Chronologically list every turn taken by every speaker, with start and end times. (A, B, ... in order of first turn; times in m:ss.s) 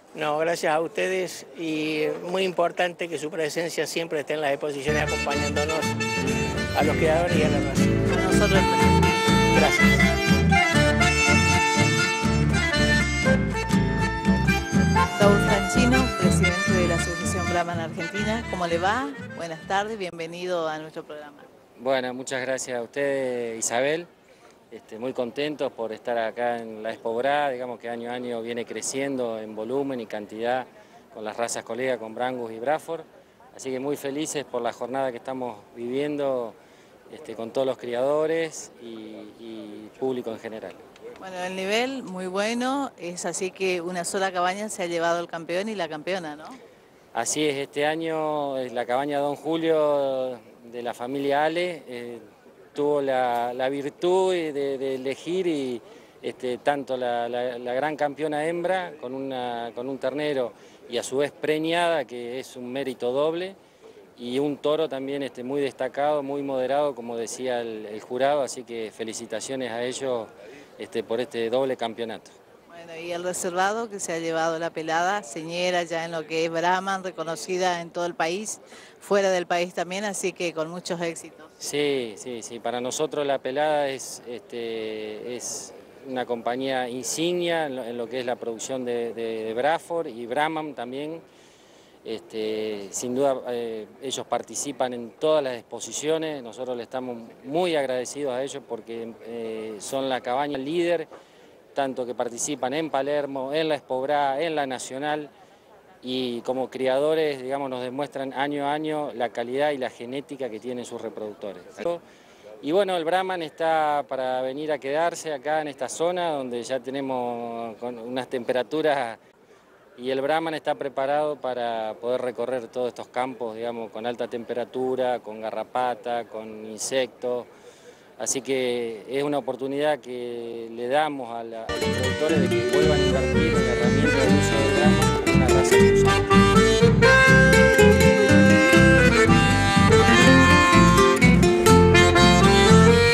0:00.1-0:06.0 A
0:06.7-0:07.9 A
0:08.1-0:09.4 B
0:09.5-0:10.1 A
0:15.2-0:21.5 B
0:21.8-0:24.1 C
0:24.7-0:36.6 C
0:37.1-0:40.8 C
0:41.2-0:46.6 B
0:47.1-0:52.2 C
0:52.7-1:03.6 C
1:04.2-1:12.3 C
1:12.7-1:21.5 B
1:21.6-1:31.2 C
1:32.0-1:41.1 C
1:41.8-1:45.3 C
1:46.0-1:52.0 C
1:52.6-1:59.2 C
2:00.0-2:07.5 C
2:08.2-2:16.3 C